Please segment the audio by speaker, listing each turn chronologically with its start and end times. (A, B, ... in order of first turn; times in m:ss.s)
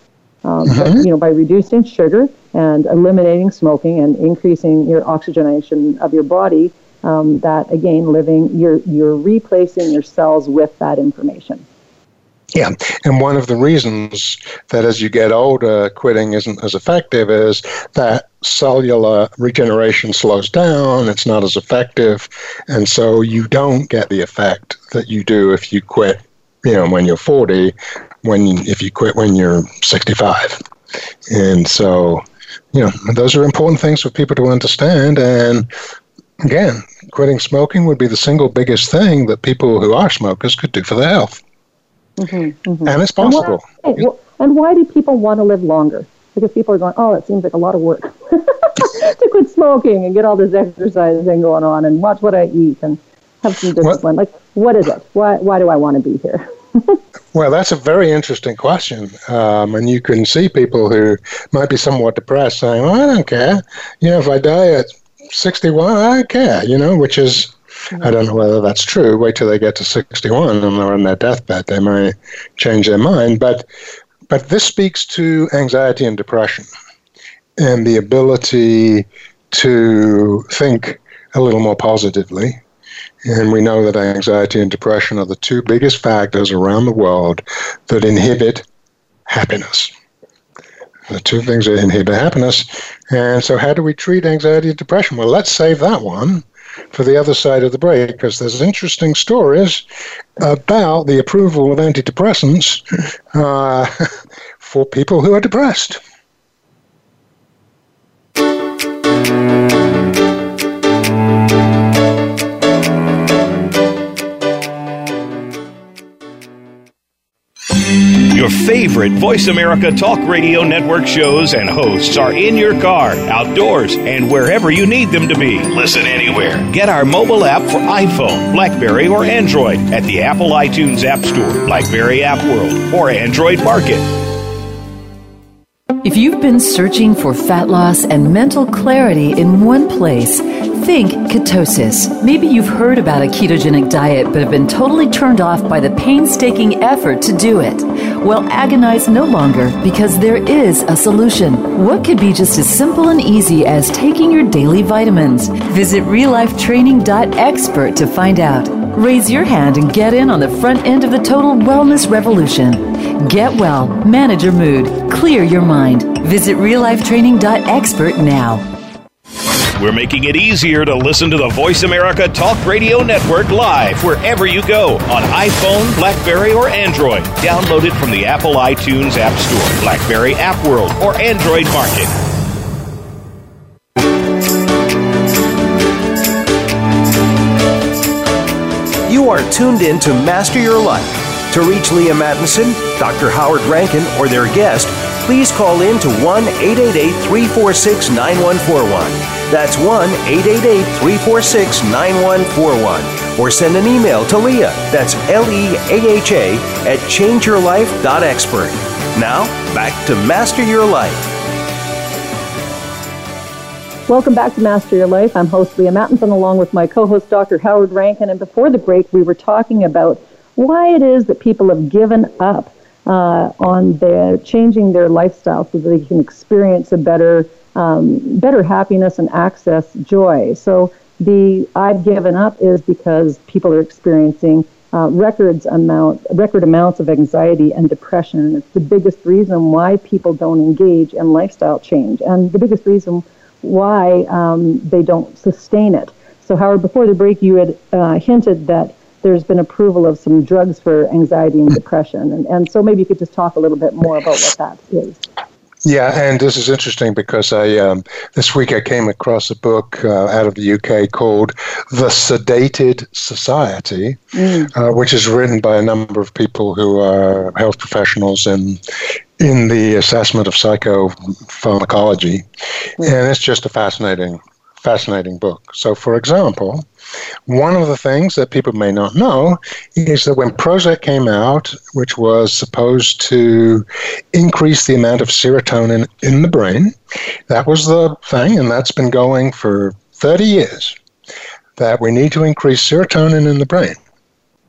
0:00.4-0:11.6 A
0:00.6-0:01.0 B
0:12.5-0:30.6 B
0:31.3-0:35.7 B
0:36.4-0:41.4 B
0:42.2-0:57.0 A
0:42.8-0:44.0 B
0:57.3-1:13.7 B
1:14.3-1:16.7 B
1:17.6-1:22.6 B
1:23.2-1:28.6 B
1:29.3-1:29.9 B
1:31.1-1:39.8 B
1:40.4-1:46.0 B
1:58.3-2:14.1 C
2:16.0-2:48.6 D
2:49.8-3:02.1 C
3:09.1-3:31.3 E
3:34.1-4:15.2 A
4:15.8-4:32.4 B
4:24.3-4:24.7 A
4:33.0-4:36.8 B
4:37.5-4:47.0 B
4:47.5-4:51.0 B
4:51.8-4:54.0 B